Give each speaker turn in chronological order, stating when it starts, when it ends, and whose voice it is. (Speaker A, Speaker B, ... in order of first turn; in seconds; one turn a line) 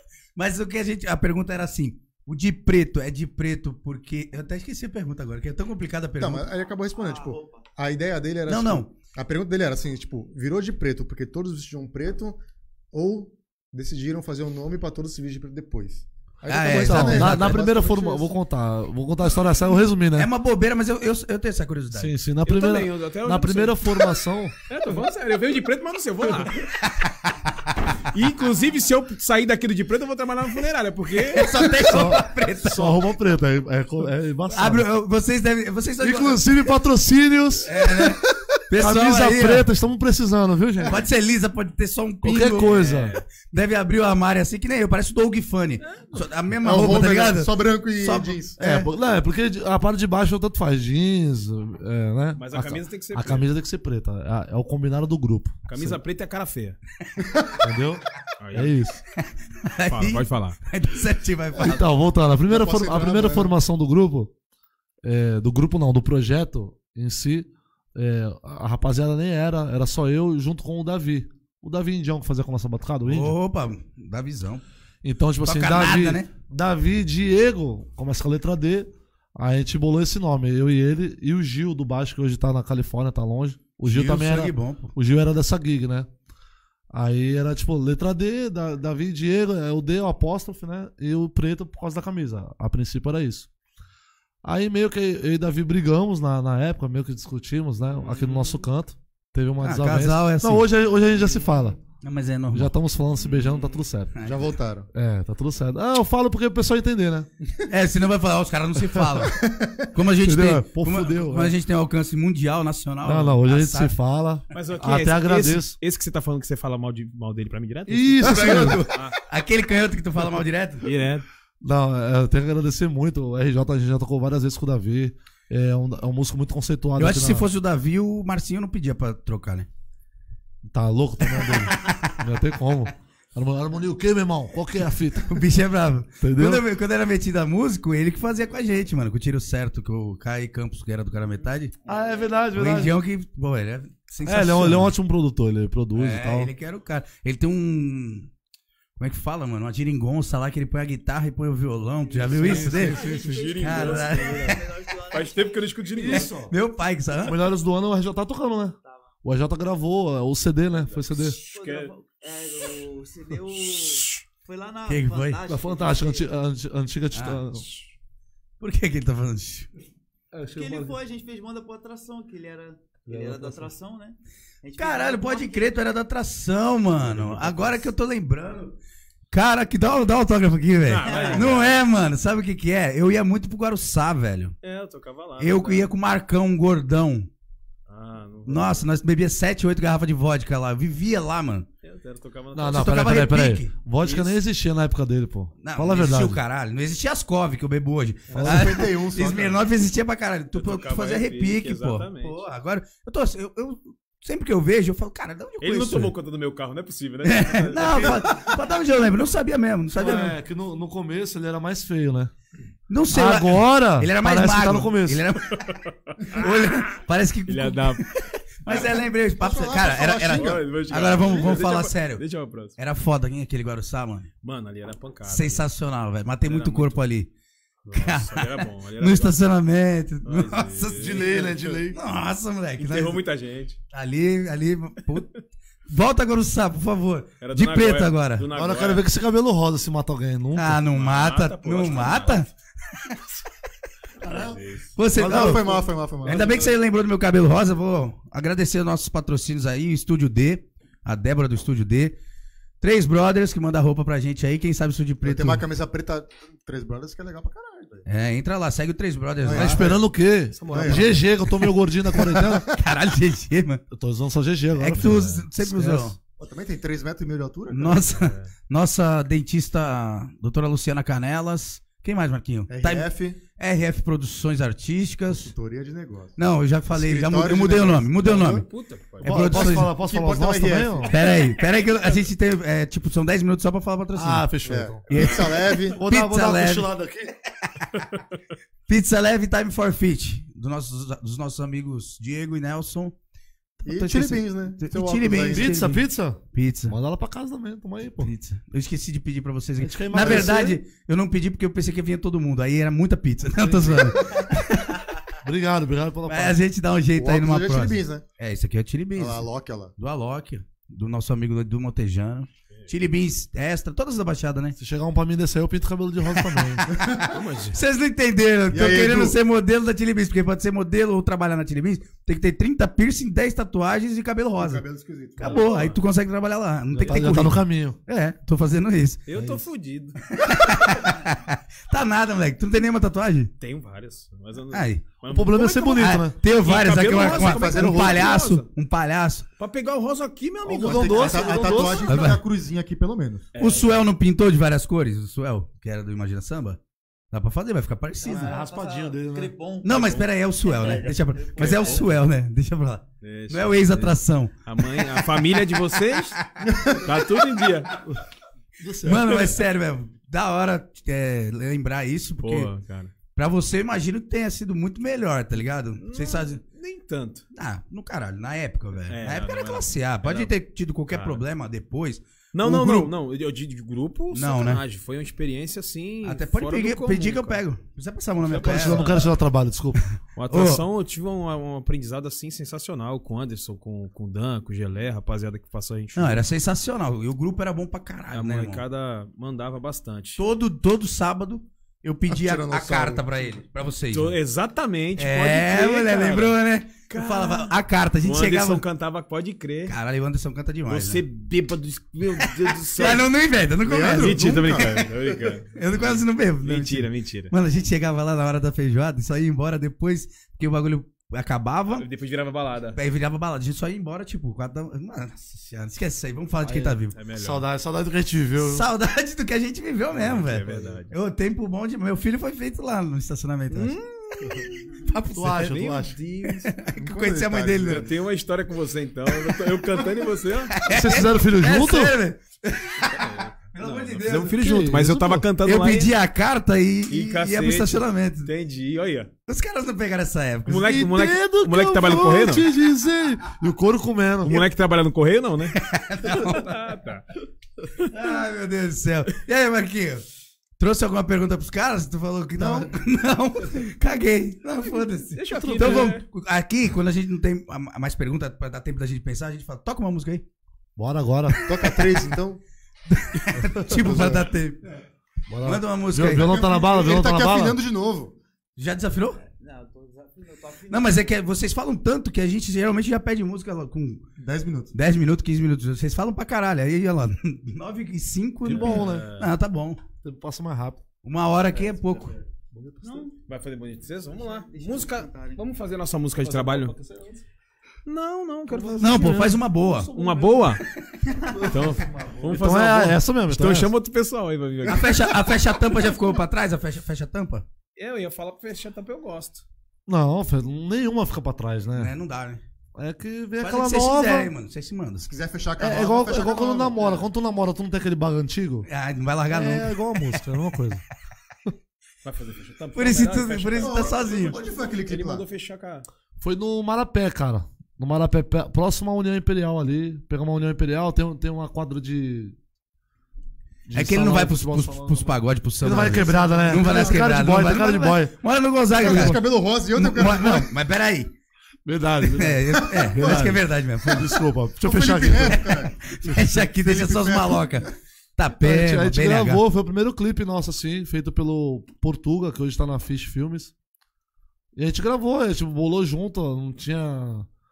Speaker A: 0.3-6.4
Speaker B: 6.2-12.4
Speaker C: 6.9-7.6
Speaker A: 8.5-8.9
Speaker B: 12.9-18.3
Speaker A: 16.5-17.6
Speaker D: 16.8-20.3
Speaker A: 20.1-22.1
Speaker D: 21.9-24.5
Speaker E: 22.4-23.9
Speaker E: 24.7-26.6
Speaker A: 26.8-27.1
Speaker E: 28.1-31.4
Speaker A: 31.2-33.1
Speaker D: 31.8-34.9
Speaker A: 34.5-36.7
Speaker D: 36.0-37.7
Speaker A: 37.6-39.7
Speaker B: 37.8-38.1
Speaker D: 38.8-41.0
Speaker A: 40.8-48.9
Speaker D: 42.2-43.1
Speaker E: 42.8-43.2
Speaker B: 46.6-48.6
Speaker D: 48.6-56.0
Speaker E: 52.4-53.4
Speaker E: 55.7-56.8
Speaker B: 57.2-57.6
Speaker D: 57.6-58.0
Speaker E: 58.4-58.7
Speaker D: 58.5-59.0
Speaker A: 59.2-61.8
Speaker E: 59.9-60.6
Speaker D: 61.6-64.3
Speaker B: 62.5-63.5
Speaker D: 65.0-73.3
Speaker A: 73.0-74.6
Speaker D: 75.0-86.1
Speaker A: 75.4-76.3
Speaker A: 83.8-84.9
Speaker D: 86.9-93.5
Speaker D: 94.4-101.8
Speaker E: 98.1-98.4
Speaker A: 99.6-100.7
Speaker A: 102.0-102.7
Speaker D: 102.5-104.2
Speaker B: 104.2-104.9
Speaker D: 104.9-107.3
Speaker A: 107.7-109.4
Speaker B: 109.2-109.9
Speaker A: 109.9-114.0
Speaker D: 110.2-111.5
Speaker D: 113.0-115.8
Speaker E: 114.5-119.2
Speaker D: 117.9-118.8
Speaker B: 118.2-118.8
Speaker A: 118.2-120.9
Speaker E: 120.8-121.2
Speaker D: 121.6-127.5
Speaker A: 127.0-129.7
Speaker D: 130.7-135.4
Speaker A: 131.4-132.2
Speaker A: 135.2-141.7
Speaker D: 136.2-136.6
Speaker D: 141.8-142.9
Speaker A: 142.5-144.9
Speaker D: 144.2-146.5
Speaker A: 145.9-148.3
Speaker A: 149.0-154.6
Speaker E: 152.3-156.3
Speaker D: 152.3-153.5
Speaker C: 152.6-155.7
Speaker D: 155.9-156.5
Speaker A: 156.1-157.4
Speaker D: 157.2-161.4
Speaker E: 160.9-161.9
Speaker C: 161.2-166.3
Speaker A: 164.9-165.4
Speaker D: 165.5-167.7
Speaker A: 167.1-167.4
Speaker A: 168.6-169.7
Speaker D: 170.3-170.9
Speaker C: 170.5-175.8
Speaker D: 173.1-173.7
Speaker A: 174.8-178.8
Speaker E: 177.0-177.8
Speaker A: 179.3-184.6
Speaker E: 180.8-181.8
Speaker C: 181.0-181.6
Speaker E: 184.6-185.9
Speaker A: 185.4-187.3
Speaker E: 187.9-188.8
Speaker A: 188.4-191.7
Speaker E: 191.8-192.9
Speaker D: 192.5-196.4
Speaker A: 192.7-193.7
Speaker E: 194.0-194.3
Speaker A: 195.6-206.1
Speaker B: 198.3-199.6
Speaker D: 198.3-198.8
Speaker E: 200.5-202.4
Speaker E: 205.6-208.4
Speaker A: 207.2-210.4
Speaker D: 209.9-212.3
Speaker A: 212.9-215.8
Speaker D: 213.1-215.2
Speaker E: 215.5-216.9
Speaker A: 216.3-222.2
Speaker E: 217.5-218.1
Speaker B: 218.7-220.8
Speaker E: 220.3-222.8
Speaker A: 222.8-224.3
Speaker E: 224.4-225.7
Speaker A: 225.2-227.3
Speaker E: 226.4-227.0
Speaker E: 227.8-229.4
Speaker A: 227.9-233.2
Speaker E: 230.2-231.6
Speaker D: 230.9-231.9
Speaker E: 232.8-233.8
Speaker A: 233.9-235.3
Speaker A: 235.9-238.4
Speaker E: 237.4-239.0
Speaker D: 238.5-240.8
Speaker A: 240.5-243.2
Speaker E: 240.9-242.4
Speaker B: 244.2-244.6
Speaker E: 244.3-244.9
Speaker A: 244.9-252.1
Speaker B: 245.1-246.7
Speaker D: 245.2-246.5
Speaker A: 252.8-255.6
Speaker B: 255.2-258.0
Speaker A: 258.1-259.9
Speaker B: 259.4-260.0
Speaker D: 259.5-262.7
Speaker B: 260.6-262.6
Speaker E: 260.7-261.0
Speaker A: 262.7-263.8
Speaker D: 263.9-266.1
Speaker A: 264.8-266.1
Speaker B: 266.4-268.1
Speaker A: 267.7-275.5
Speaker E: 268.1-268.5
Speaker B: 272.7-273.4
Speaker B: 275.3-276.4
Speaker A: 276.4-278.6
Speaker B: 276.9-278.6
Speaker E: 278.6-279.5
Speaker A: 279.2-279.9
Speaker D: 279.2-281.1
Speaker B: 279.5-281.1
Speaker A: 281.1-284.5
Speaker D: 284.1-285.3
Speaker B: 284.6-286.0
Speaker A: 285.1-286.9
Speaker D: 286.0-287.3
Speaker A: 288.9-293.1
Speaker B: 293.9-295.8
Speaker A: 293.9-296.9
Speaker D: 295.5-298.3
Speaker A: 298.2-305.1
Speaker D: 299.8-300.8
Speaker B: 300.2-300.5
Speaker D: 303.6-304.1
Speaker D: 305.4-306.6
Speaker A: 306.3-314.8
Speaker B: 307.1-308.2
Speaker B: 309.1-309.9
Speaker D: 314.8-316.9
Speaker A: 316.4-324.8
Speaker B: 316.9-317.3
Speaker E: 317.3-317.8
Speaker B: 318.7-319.4
Speaker B: 324.6-325.7
Speaker A: 325.4-329.2
Speaker E: 325.4-326.0
Speaker D: 326.9-328.0
Speaker E: 329.2-330.2
Speaker D: 329.3-329.6
Speaker A: 330.3-333.5
Speaker E: 333.6-338.7
Speaker A: 334.7-335.0
Speaker D: 335.2-336.3
Speaker A: 336.0-339.4
Speaker B: 337.1-338.3
Speaker E: 339.6-341.8
Speaker D: 340.6-342.2
Speaker B: 340.8-343.4
Speaker A: 342.1-342.4
Speaker E: 343.5-344.0
Speaker A: 343.6-346.8
Speaker A: 347.3-348.5
Speaker C: 348.2-352.0
Speaker D: 348.2-349.5
Speaker A: 349.8-355.1
Speaker E: 349.9-350.2
Speaker E: 350.8-352.1
Speaker E: 353.2-354.1
Speaker E: 354.6-358.0
Speaker D: 358.8-359.4
Speaker A: 359.0-362.7
Speaker E: 362.4-363.1
Speaker A: 363.3-366.6
Speaker E: 366.0-367.4
Speaker A: 367.5-372.2
Speaker E: 369.1-370.5
Speaker E: 371.1-371.4
Speaker E: 372.5-377.6
Speaker D: 372.6-373.1
Speaker A: 374.3-374.8
Speaker A: 376.2-379.2
Speaker E: 378.4-379.3
Speaker D: 378.6-380.0
Speaker E: 380.4-386.4
Speaker A: 380.5-380.8
Speaker A: 386.1-388.8
Speaker E: 388.3-390.4
Speaker A: 390.4-394.4
Speaker B: 392.3-393.5
Speaker E: 394.1-396.6
Speaker A: 395.2-398.8
Speaker E: 397.1-399.9
Speaker A: 399.9-401.2
Speaker E: 400.9-403.3
Speaker A: 402.4-404.9
Speaker B: 403.8-405.6
Speaker E: 404.1-407.5
Speaker A: 405.7-412.1
Speaker E: 411.9-413.0
Speaker A: 412.9-417.2
Speaker E: 416.7-417.6
Speaker D: 417.4-418.9
Speaker A: 418.6-425.8
Speaker E: 420.1-421.1
Speaker D: 420.7-420.9
Speaker E: 423.7-424.6
Speaker D: 425.3-426.2
Speaker E: 425.6-426.8
Speaker A: 426.4-428.1
Speaker B: 427.0-428.1
Speaker E: 427.8-430.8
Speaker A: 430.7-434.6
Speaker D: 430.9-432.1
Speaker E: 433.1-436.1
Speaker D: 434.4-435.5
Speaker A: 435.6-438.5
Speaker E: 437.1-439.3
Speaker A: 439.5-440.9
Speaker E: 440.7-442.7
Speaker D: 440.7-444.6
Speaker E: 444.4-447.2
Speaker A: 445.7-446.8
Speaker A: 448.0-450.2
Speaker A: 450.8-460.4
Speaker D: 452.6-452.9
Speaker E: 455.4-456.2
Speaker D: 455.5-456.1
Speaker D: 461.0-461.6
Speaker B: 461.6-462.6
Speaker A: 461.8-462.2
Speaker A: 463.1-464.8
Speaker B: 463.9-464.5
Speaker D: 465.5-467.8
Speaker A: 465.6-466.6
Speaker B: 466.2-468.4
Speaker A: 468.8-469.4
Speaker C: 469.4-471.3
Speaker A: 470.9-474.2
Speaker B: 474.4-474.9
Speaker A: 474.9-480.0
Speaker D: 478.6-479.3
Speaker E: 478.6-479.5
Speaker D: 480.2-481.0
Speaker A: 481.2-482.3
Speaker D: 482.7-483.2
Speaker C: 483.0-483.3
Speaker E: 483.3-486.9
Speaker C: 484.3-485.7
Speaker D: 486.4-487.3
Speaker E: 488.0-489.6
Speaker D: 488.7-490.8
Speaker A: 489.0-490.1
Speaker E: 490.1-490.8
Speaker D: 491.5-493.9
Speaker E: 491.7-495.6
Speaker A: 494.8-497.6
Speaker E: 497.9-499.6
Speaker D: 500.1-502.1
Speaker A: 501.9-502.6
Speaker D: 502.9-504.5
Speaker A: 503.6-505.3
Speaker B: 505.3-507.2
Speaker D: 505.8-508.9
Speaker A: 508.9-510.4
Speaker D: 509.5-511.0
Speaker E: 512.2-514.0
Speaker A: 512.9-514.6
Speaker B: 513.8-515.5
Speaker E: 515.0-516.0
Speaker D: 516.4-522.5
Speaker D: 523.9-528.3
Speaker A: 523.9-529.4
Speaker B: 525.9-527.3
Speaker B: 529.0-530.7
Speaker D: 529.0-529.3
Speaker A: 529.9-531.3
Speaker D: 531.9-535.6
Speaker A: 532.2-534.4
Speaker B: 532.8-533.5
Speaker B: 534.8-537.8
Speaker A: 535.5-539.6
Speaker D: 538.6-543.7
Speaker D: 544.7-547.5